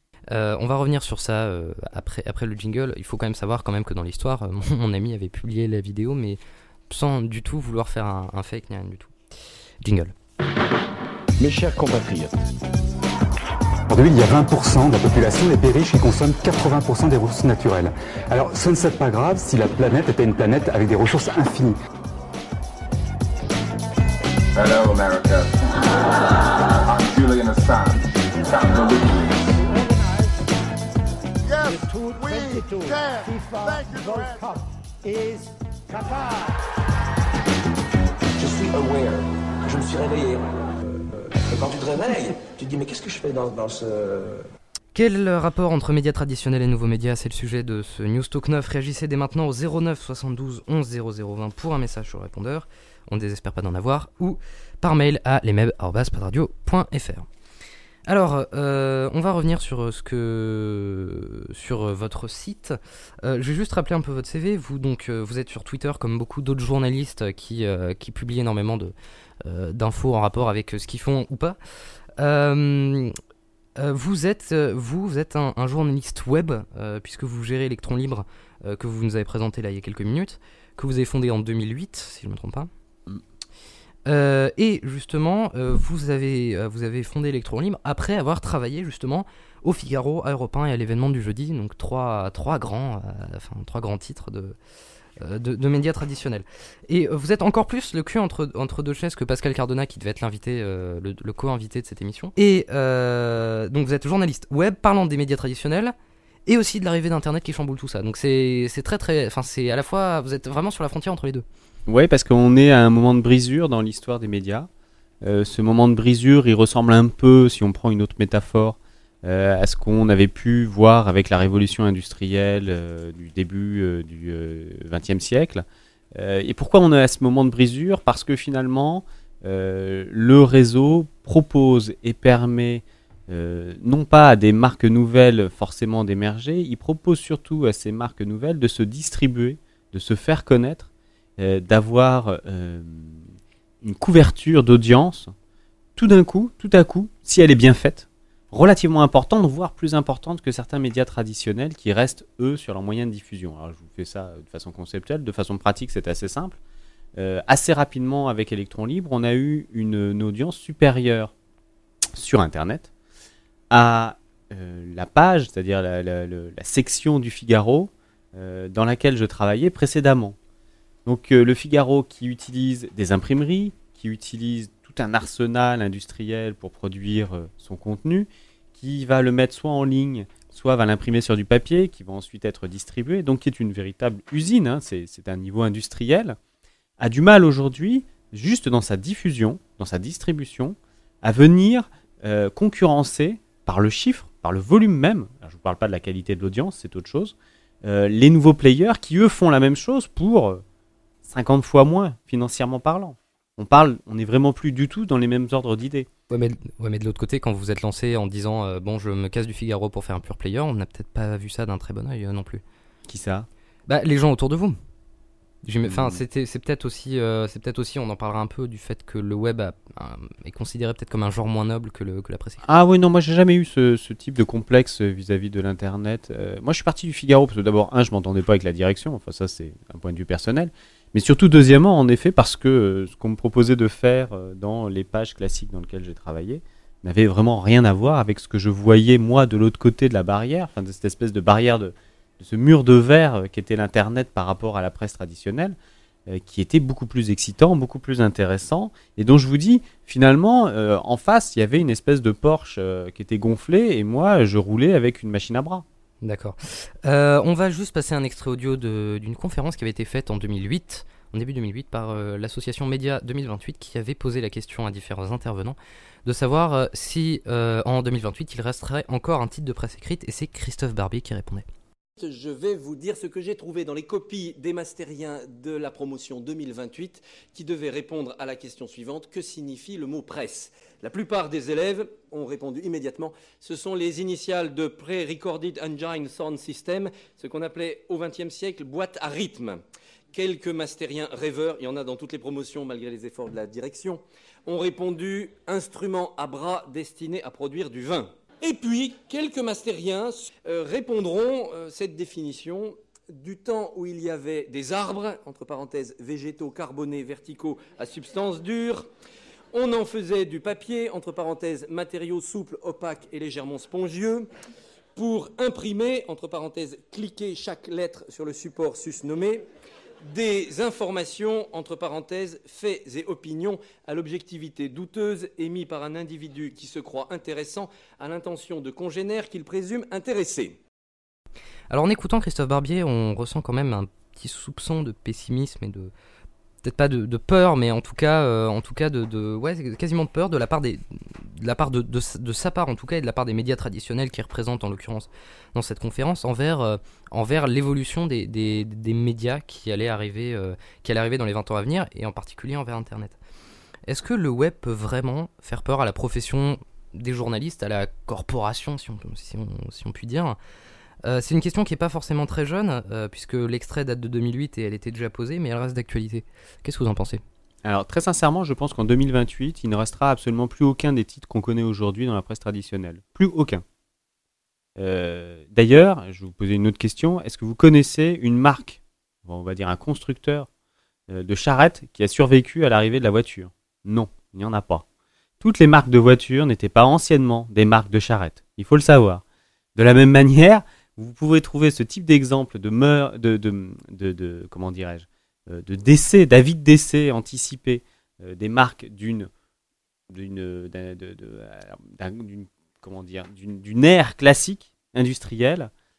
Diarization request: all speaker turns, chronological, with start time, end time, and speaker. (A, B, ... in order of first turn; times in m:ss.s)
0:00.3-0:09.1 A
0:09.8-0:10.1 A
0:11.4-0:12.4 B
0:13.9-0:21.8 C
0:24.5-0:29.5 D
0:29.6-0:30.3 E
0:31.5-0:36.5 E
0:38.4-0:44.5 B
0:44.9-0:57.3 A
0:58.1-1:11.6 A
1:12.2-1:13.1 A
1:13.8-1:22.7 A
1:24.0-1:34.6 A
1:35.2-1:45.9 A
1:46.5-1:51.4 A
1:51.9-1:54.7 F
1:55.2-2:23.3 F
2:23.8-2:25.3 F
2:26.0-2:36.6 F
2:37.2-2:41.3 F
2:42.1-2:42.9 F
2:43.7-2:50.4 F
2:51.0-3:06.4 F
3:07.0-3:20.6 F
3:21.2-3:26.1 F
3:26.3-3:32.6 A
3:33.0-3:33.5 F
3:33.9-3:34.8 A
3:35.6-3:42.6 A
3:35.8-3:36.2 F
3:42.6-4:15.8 F
4:16.2-4:31.7 A
4:32.2-4:49.8 G
4:50.3-5:09.1 G
5:09.7-5:14.5 G
5:15.2-5:19.6 G
5:20.2-5:30.8 G
5:31.9-5:36.1 A
5:36.8-5:53.4 A
5:54.1-6:00.6 A
6:01.2-6:07.4 A
6:07.8-6:13.8 F
6:15.0-6:20.7 F
6:21.3-6:25.0 F
6:25.6-6:29.4 F
6:30.0-6:39.5 F
6:40.3-6:45.9 F